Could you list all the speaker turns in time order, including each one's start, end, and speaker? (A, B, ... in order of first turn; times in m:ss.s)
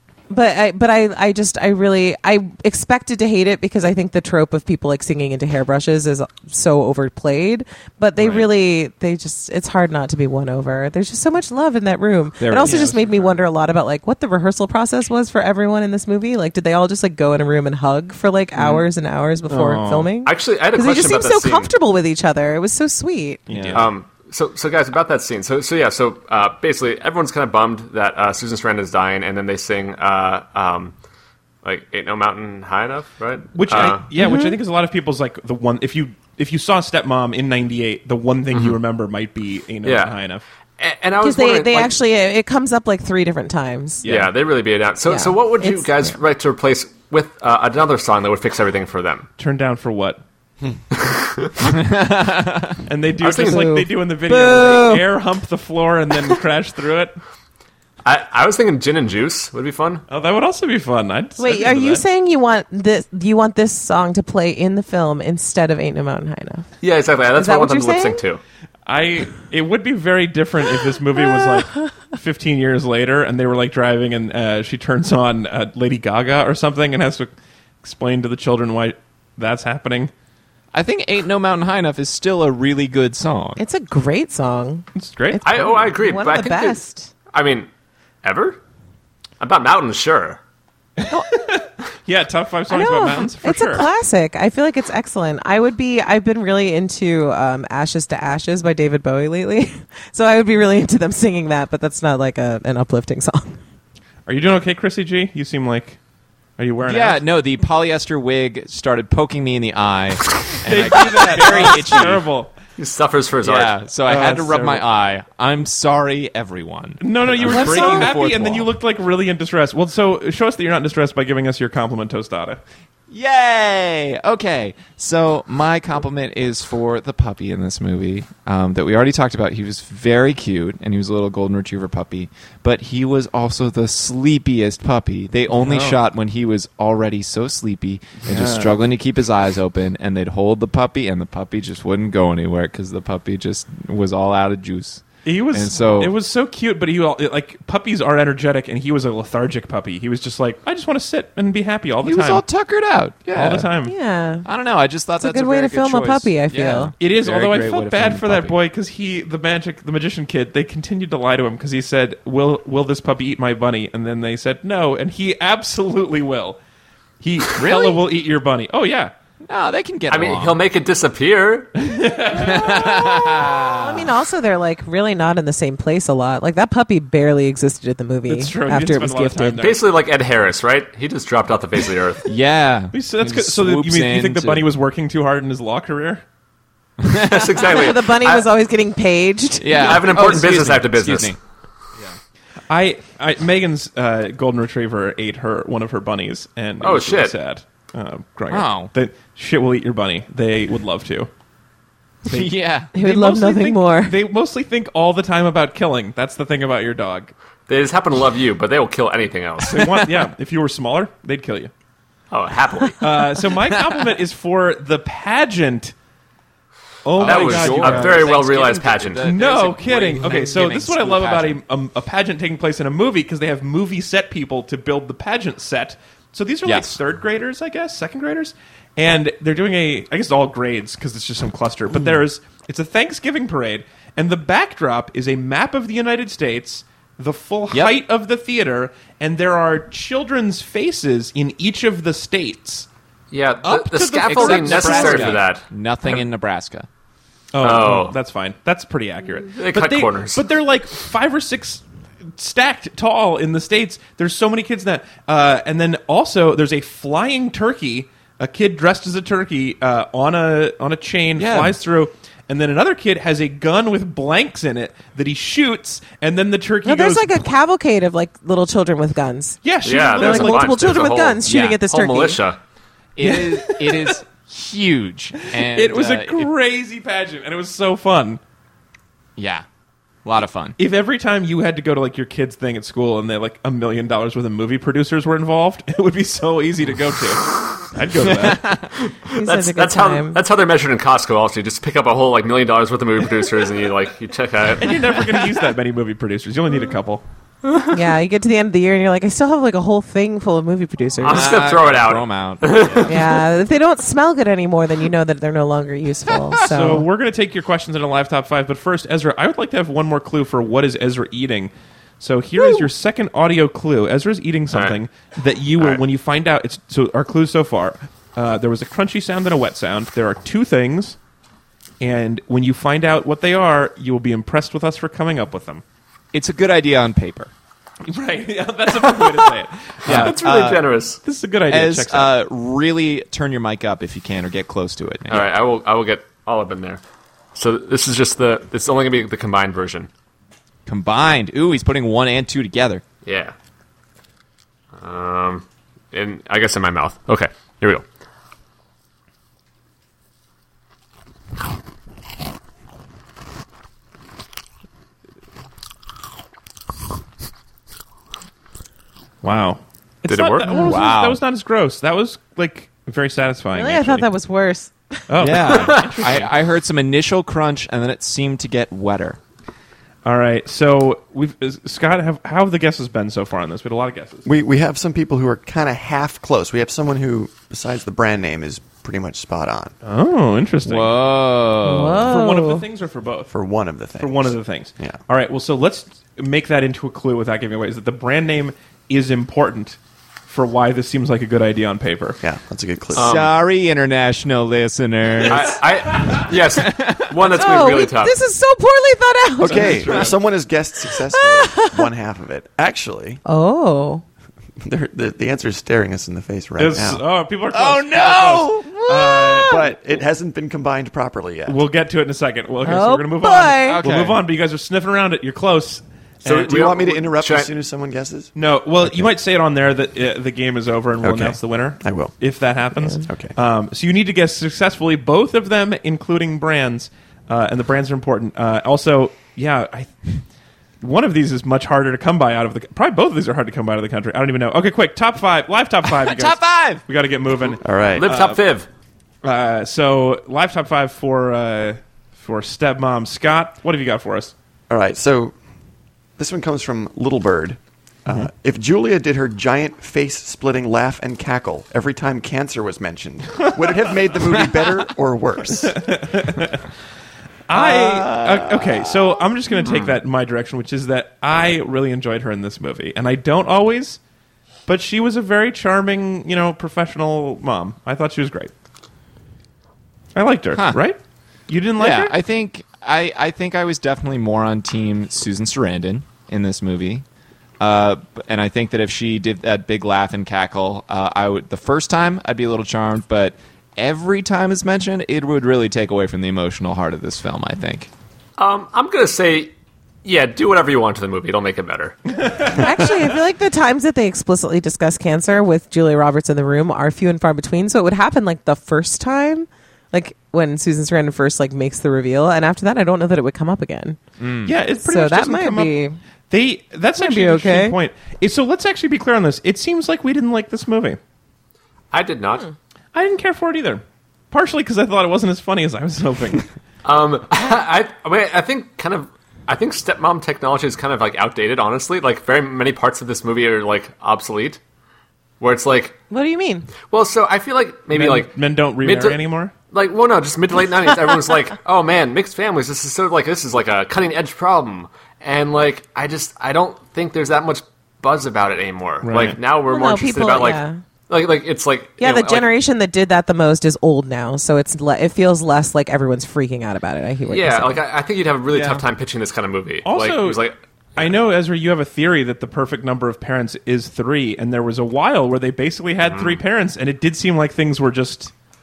0:00.3-0:23.5 A
0:08.2-0:08.5 B
0:12.4-0:12.9 B
0:12.6-0:13.4 C
0:18.6-0:18.8 C
0:19.5-0:20.1 C
0:20.2-0:21.7 D
0:23.5-0:23.9 C
0:23.5-0:23.9 B
0:23.7-0:31.0 D
0:31.6-0:34.0 D
0:33.5-0:40.4 C
0:34.1-0:34.6 A
0:38.5-0:38.8 D
0:39.8-0:40.1 D
0:40.8-0:41.9 D
0:41.2-0:44.0 A
0:44.0-0:44.3 B
0:44.0-0:49.3 D
0:45.1-0:46.2 A
0:49.4-0:50.2 C
0:50.9-0:51.8 D
0:51.6-0:52.8 B
0:52.9-0:57.2 C
0:53.2-0:53.7 D
0:53.3-0:55.1 A
0:58.0-1:00.0 D
1:00.1-1:02.0 C
1:01.4-1:06.7 A
1:06.8-1:08.4 D
1:07.4-1:08.2 A
1:08.9-1:17.3 C
1:17.8-1:20.1 C
1:20.7-1:23.6 B
1:23.6-1:27.1 A
1:25.0-1:25.7 C
1:25.4-1:26.8 D
1:27.3-1:27.7 D
1:28.2-1:28.6 D
1:29.4-1:30.4 D
1:31.0-1:33.9 C
1:32.7-1:43.6 A
1:44.3-1:46.0 C
1:46.6-1:47.2 C
1:46.9-1:52.2 B
1:50.6-1:52.6 C
1:52.8-1:53.8 D
1:53.4-1:58.7 B
1:54.0-1:54.8 C
1:57.0-2:02.6 C
1:57.5-1:58.1 A
2:03.1-2:26.2 B
2:15.5-2:16.0 C
2:18.2-2:18.9 C
2:25.2-2:32.4 C
2:32.0-2:33.7 B
2:33.3-2:34.0 C
2:33.8-2:34.4 A
2:34.4-2:38.6 B
2:35.2-2:36.9 A
2:37.0-2:46.6 C
2:47.2-2:49.1 C
2:47.6-2:48.0 B
2:49.5-2:50.6 B
2:50.1-2:51.7 D
2:51.7-2:53.2 C
2:52.4-2:54.1 B
2:52.7-2:59.6 A
2:58.3-2:59.9 C
2:59.6-3:02.3 D
3:02.3-3:04.7 B
3:02.9-3:06.2 C
3:07.0-3:07.6 B
3:07.1-3:08.5 D
3:07.5-3:10.3 A
3:09.6-3:11.4 B
3:09.7-3:11.4 D
3:12.7-3:21.3 C
3:16.8-3:17.4 D
3:18.5-3:18.9 B
3:22.3-3:22.9 B
3:22.3-3:27.3 C
3:22.9-3:24.2 A
3:27.7-3:30.0 D
3:29.6-3:31.7 C
3:32.3-3:33.2 D
3:33.0-3:35.9 C
3:37.0-3:38.4 C
3:37.2-3:39.3 D
3:37.2-3:41.6 B
3:39.2-4:02.9 C
3:46.6-3:47.0 B
4:03.3-4:05.6 D
4:03.6-4:05.4 C
4:04.3-4:06.9 B
4:07.5-4:27.4 C
4:07.6-4:08.1 D
4:09.6-4:10.4 D
4:21.4-4:21.8 B
4:26.8-4:29.6 A
4:29.6-4:30.9 C
4:29.8-4:32.6 D
4:30.2-4:32.4 A
4:31.4-4:31.8 B
4:33.2-4:36.5 B
4:33.2-4:34.2 C
4:35.5-4:38.4 C
4:39.4-4:39.6 B
4:40.2-4:40.8 B
4:40.8-4:48.8 C
4:48.3-4:48.9 B
4:49.2-4:55.0 D
4:49.3-4:50.4 A
4:54.7-4:57.2 C
4:57.9-5:01.6 A
5:01.2-5:03.4 D
5:01.3-5:03.4 B
5:03.1-5:07.1 A
5:06.6-5:21.2 C
5:14.7-5:15.0 D
5:22.0-5:25.8 C
5:26.3-5:27.5 B
5:28.1-5:30.4 C
5:29.0-5:29.5 D
5:30.1-5:30.9 B
5:30.1-5:31.2 D
5:31.2-5:32.4 C
5:31.7-5:35.5 B
5:35.3-5:37.0 D
5:37.6-5:40.1 D
5:40.9-5:43.0 B
5:43.2-5:43.5 D
5:45.0-5:48.0 D
5:59.4-6:04.3 C
6:00.3-6:00.7 D
6:00.6-6:01.0 A
6:00.8-6:01.4 B
6:03.7-6:05.2 A
6:05.3-6:06.5 C
6:05.4-6:09.4 B
6:05.7-6:06.1 D
6:10.2-6:14.4 C
6:14.4-6:19.9 E
6:20.0-6:21.2 C
6:20.8-6:22.3 B
6:21.8-6:22.9 A
6:22.2-6:23.5 C
6:23.5-6:25.2 E
6:24.2-6:32.4 C
6:32.4-6:33.4 E
6:33.1-6:33.5 D
6:33.1-6:37.3 B
6:35.5-6:38.4 D
6:36.2-6:36.5 C
6:37.4-6:40.1 A
6:39.6-6:40.4 C
6:39.6-6:43.4 E
6:41.3-6:42.0 A
6:43.4-6:44.2 A
6:44.8-6:47.2 E
6:46.8-6:49.8 C
6:47.7-6:49.4 B
6:49.0-6:49.8 A
6:49.6-6:51.8 E
6:51.7-6:56.0 C
6:52.8-6:54.0 A
6:53.8-6:54.4 B
6:56.4-6:57.7 D
6:56.4-6:59.3 E
6:58.6-7:10.4 C
7:01.2-7:02.3 E
7:03.2-7:03.5 E
7:11.0-7:18.6 C
7:16.1-7:17.0 B
7:17.8-7:18.3 E
7:18.2-7:18.9 D
7:19.4-7:24.5 C
7:24.9-7:25.5 E
7:26.4-7:36.0 E
7:35.8-7:36.8 C
7:37.7-7:44.2 C
7:37.7-7:39.1 B
7:39.9-7:40.1 D
7:44.9-7:48.7 C
7:50.4-7:52.4 C
7:50.7-7:51.0 B
7:52.0-7:57.2 B
7:57.8-8:08.1 B
8:08.6-8:09.7 D
8:10.2-8:12.2 D
8:12.3-8:13.3 C
8:12.7-8:24.2 A
8:24.4-8:24.7 B
8:24.6-8:26.0 C
8:25.0-8:26.2 A
8:26.5-8:31.2 C
8:27.2-8:28.0 A
8:32.1-8:32.7 D
8:33.1-8:36.7 C
8:37.0-8:44.8 D
8:45.6-8:46.2 D
8:46.3-8:46.9 A
8:47.1-9:02.7 D
8:48.1-8:49.7 C
8:59.2-8:59.6 C
8:59.8-9:01.0 A
9:02.2-9:08.0 A
9:07.5-9:11.3 D
9:08.7-9:09.0 B
9:10.0-9:10.6 C
9:11.2-9:18.5 C
9:16.2-9:16.6 D